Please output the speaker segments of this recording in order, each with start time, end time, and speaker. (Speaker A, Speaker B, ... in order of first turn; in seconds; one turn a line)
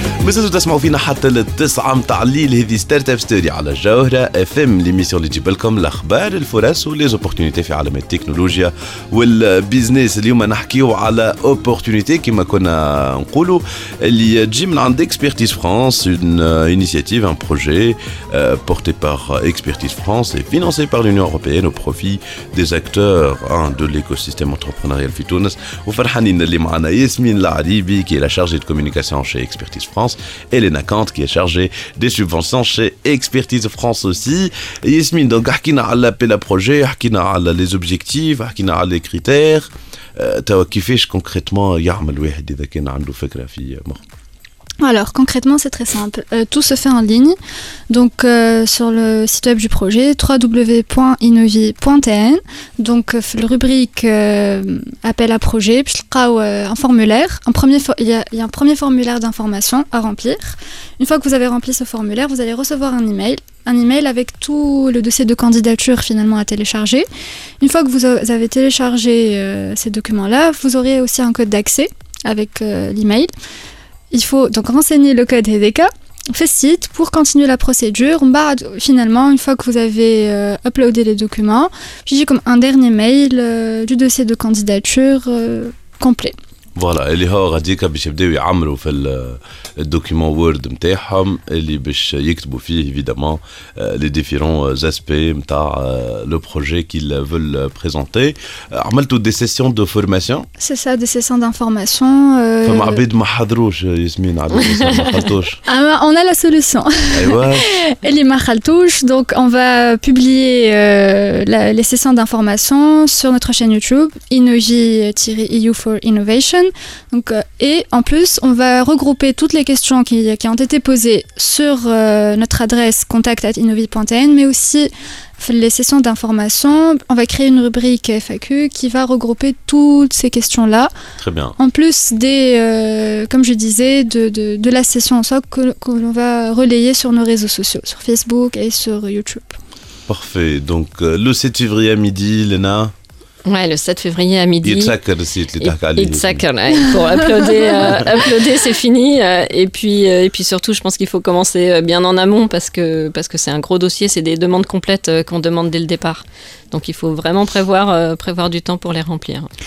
Speaker A: 0.2-44.0
Speaker B: 44.8-47.4
Speaker B: 47.9-67.0
Speaker B: 67.6-73.3
Speaker B: 74.1-86.3
Speaker A: 86.8-100.5
Speaker B: 100.6-103.0
Speaker A: 102.6-105.6
Speaker B: 105.7-130.9
Speaker A: 107.1-107.7
Speaker A: 131.2-131.5
Speaker B: 131.6-139.6
Speaker A: 140.1-142.9
Speaker C: 143.4-144.9
Speaker A: 144.6-146.4
Speaker C: 145.6-159.5